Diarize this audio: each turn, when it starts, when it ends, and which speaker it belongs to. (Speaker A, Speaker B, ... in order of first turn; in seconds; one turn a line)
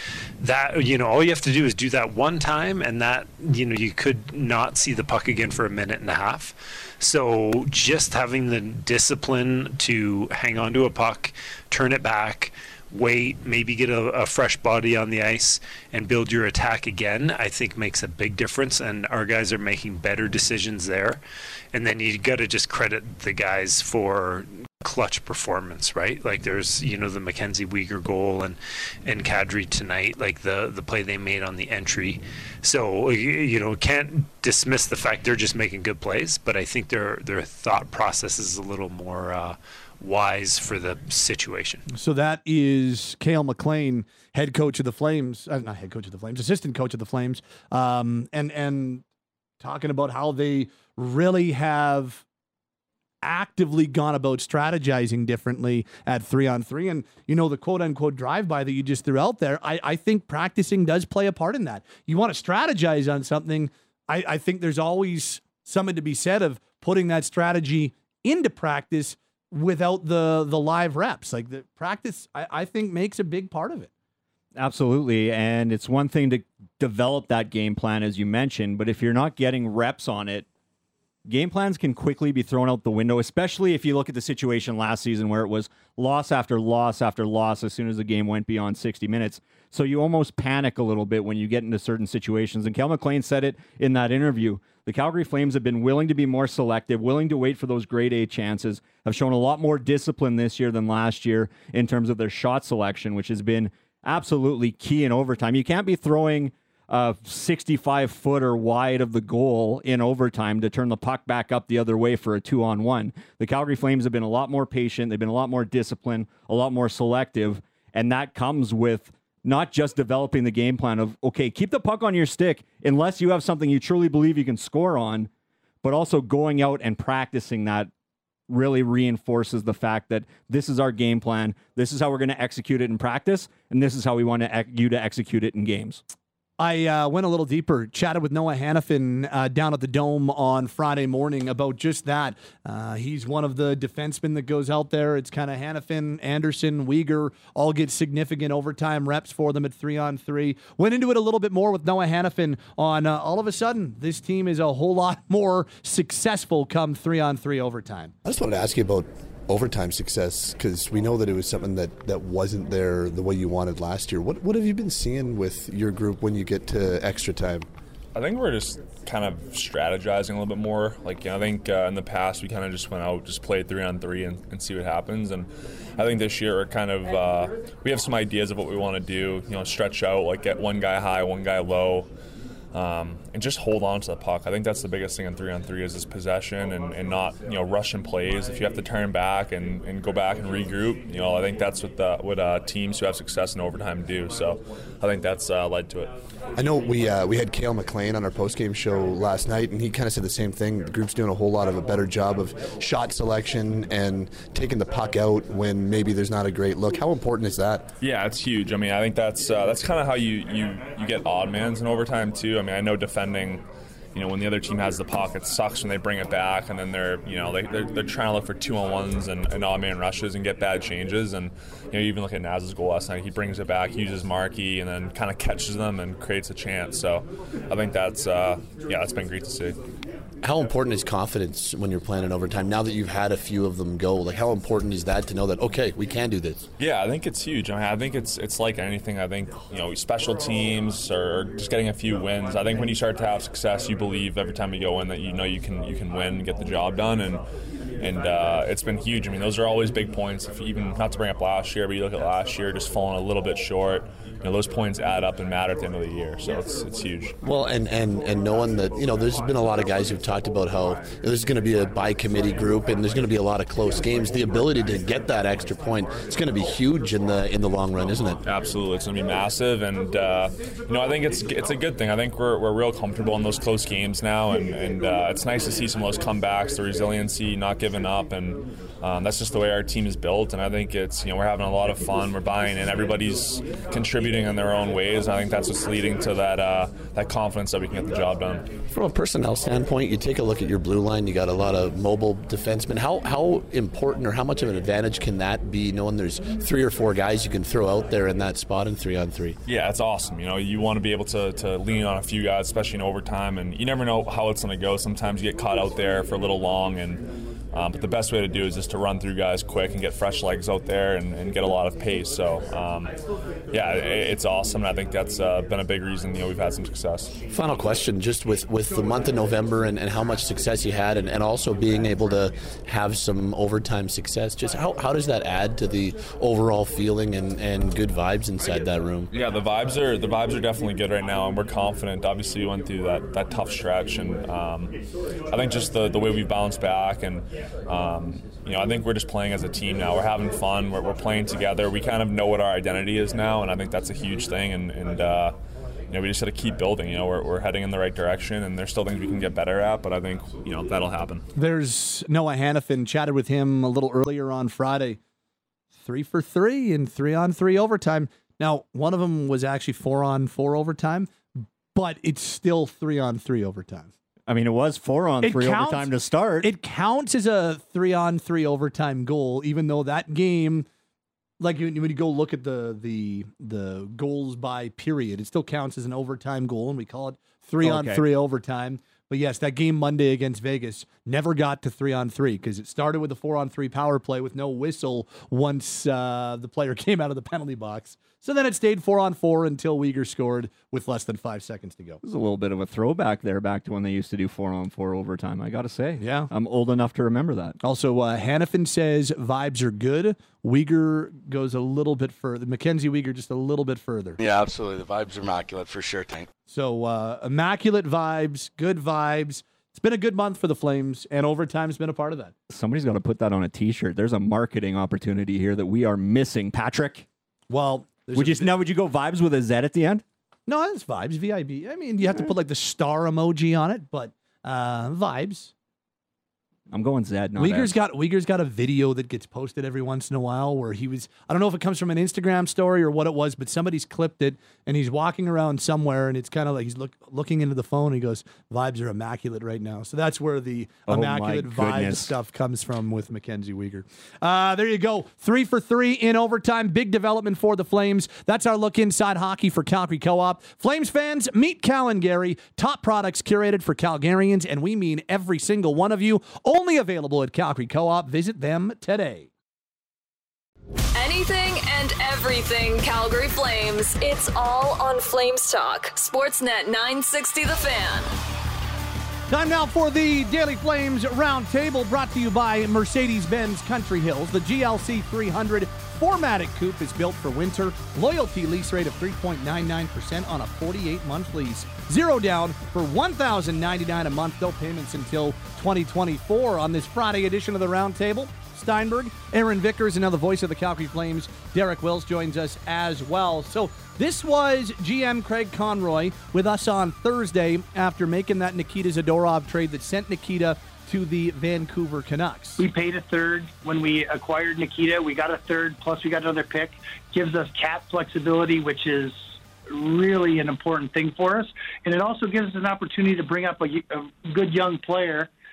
Speaker A: 0.4-21.2
Speaker A: 21.7-41.8
Speaker B: 41.9-49.0
Speaker B: 49.6-52.2
Speaker B: 53.2-73.9
Speaker C: 74.6-80.5
Speaker C: 81.3-125.3
Speaker C: 125.8-127.9
Speaker C: 128.5-136.0
Speaker B: 136.6-158.1
Speaker D: 158.2-167.7
Speaker E: 168.2-182.1
Speaker E: 182.7-196.1
Speaker D: 196.6-207.9
Speaker E: 208.0-213.6
Speaker E: 214.2-229.8
Speaker D: 230.4-236.6
Speaker E: 236.8-247.4
Speaker E: 248.0-257.4
Speaker D: 257.4-268.4
Speaker E: 268.4-288.6
Speaker D: 288.9-299.6
Speaker E: 299.7-313.1
Speaker E: 313.7-317.4
Speaker D: 317.5-329.3
Speaker E: 329.3-334.9
Speaker E: 335.5-345.6
Speaker E: 346.1-351.4
Speaker B: 351.6-355.2
Speaker B: 356.0-364.1
Speaker C: 364.5-366.7
Speaker B: 365.4-370.9
Speaker B: 371.6-392.2
Speaker C: 377.8-378.2
Speaker C: 392.2-397.8
Speaker B: 396.2-396.5
Speaker B: 397.8-404.4
Speaker F: 404.4-406.5
Speaker B: 406.7-412.5
Speaker C: 412.7-417.3
Speaker B: 417.7-418.7
Speaker C: 418.3-420.2
Speaker B: 420.7-425.7
Speaker C: 426.9-428.0
Speaker B: 427.6-459.5
Speaker C: 441.1-442.3
Speaker G: 461.1-468.4
Speaker B: 469.5-502.8
Speaker H: 502.8-515.5